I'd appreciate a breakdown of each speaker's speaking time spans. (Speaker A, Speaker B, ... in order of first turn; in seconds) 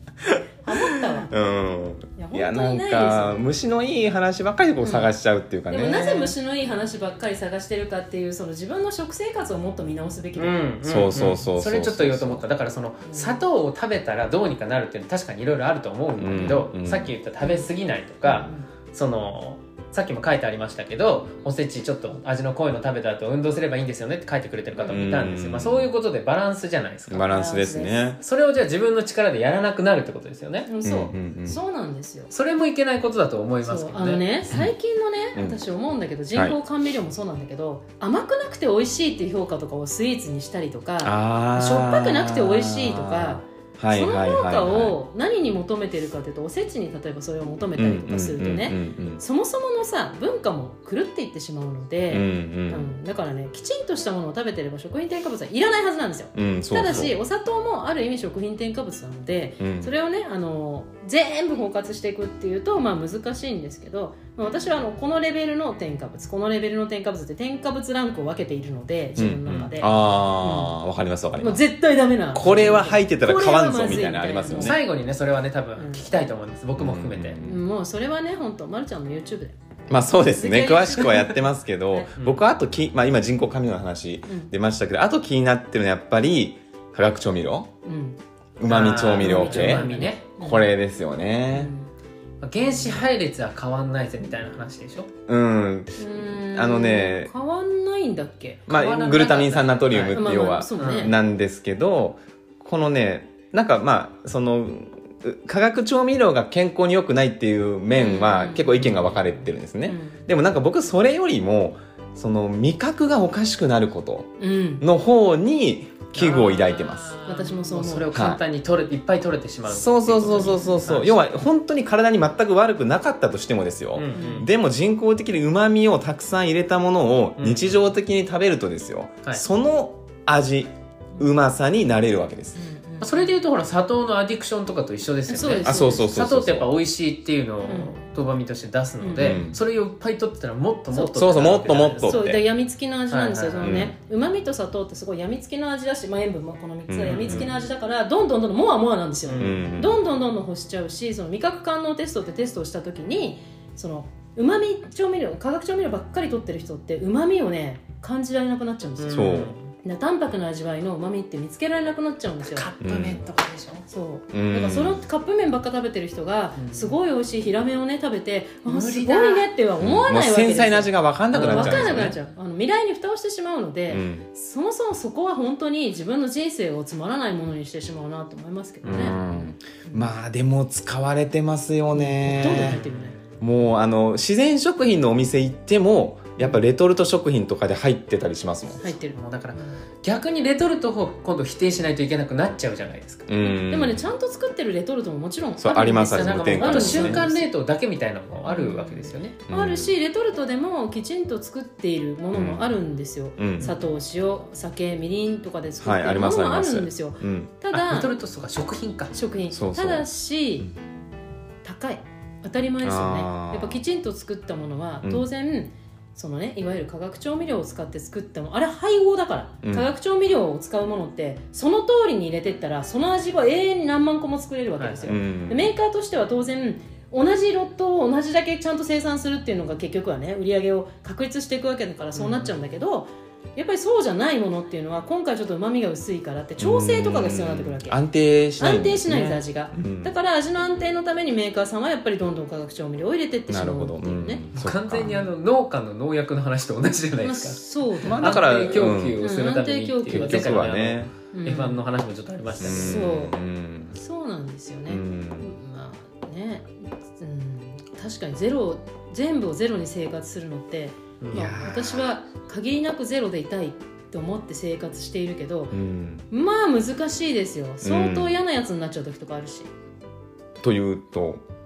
Speaker A: 0.6-1.3, 2.1-3.4, 4.8-5.1, 5.7-10.6, 13.1-13.4, 17.4-17.7, 18.2-18.7, 27.2-28.0, 30.6-32.3, 33.6-70.7, 71.4-74.8, 75.8-76.1, 77.4-79.5, 80.2-81.4, 84.2-84.5, 87.8-88.2, 89.1-90.7, 91.5-91.9, 96.0-98.7, 100.1-101.1, 107.9-110.2, 114.4-114.8, 117.2-118.1, 120.3-120.8, 124.1-124.5, 132.6-133.3, 135.3-136.1, 137.7-137.9, 139.0-139.4, 140.9-141.2, 142.0-162.7, 163.9-180.1, 181.9-183.2, 188.8-189.8, 193.4-197.5, 198.4-208.1, 209.1-210.7, 211.6-238.0, 238.6-244.4, 247.2-250.6, 251.3-251.8, 252.6-253.4, 253.9-265.8, 266.3-269.7
Speaker B: 0.9-6.3, 10.8-12.4, 16.2-17.1, 24.9-25.9, 27.1-28.2, 30.8-31.6, 35.4-35.6, 41.0-45.0, 47.8-49.2, 52.1-52.9, 56.4-57.1, 59.6-59.9, 69.2-71.6, 72.3-74.8, 76.8-77.6, 79.9-87.7, 88.6-91.7, 95.3-97.3, 98.7-117.1, 118.1-118.4, 119.7-132.6, 135.6-136.7, 139.2-139.6, 141.2-142.4, 143.6-143.9, 146.9-147.5, 149.4-150.0, 159.1-159.5, 162.8-163.2, 164.3-165.0, 169.8-172.2, 173.9-174.2, 178.8-182.8, 183.4-188.8, 193.3-194.1, 195.6-197.2, 199.5-199.9, 202.3-202.7, 203.4-203.7, 205.8-207.5, 209.5-210.1, 212.8-213.8, 219.6-219.9, 225.1-225.7, 236.6-240.1, 243.5-245.2, 248.0-249.2, 250.1-251.1, 252.6-253.9, 254.9-255.5, 261.3-262.1, 265.7-266.2, 267.8-268.4, 270.6-271.4
Speaker C: 10.4-27.3, 28.2-30.7, 32.3-34.2, 74.5-77.4, 88.7-90.3, 92.4-95.1, 98.7-100.2, 100.8-101.1, 116.1-121.3, 124.0-124.5, 127.4-127.8, 133.0-142.2, 143.1-143.8, 147.1-147.5, 149.2-149.6, 159.0-159.6, 162.4-163.9, 166.6-166.9, 168.7-169.5, 171.3-172.1, 182.4-182.9, 189.1-193.3, 196.1-199.4, 207.7-209.1, 224.8-225.1, 232.1-232.6, 244.6-247.6, 248.2-253.0, 261.2-261.5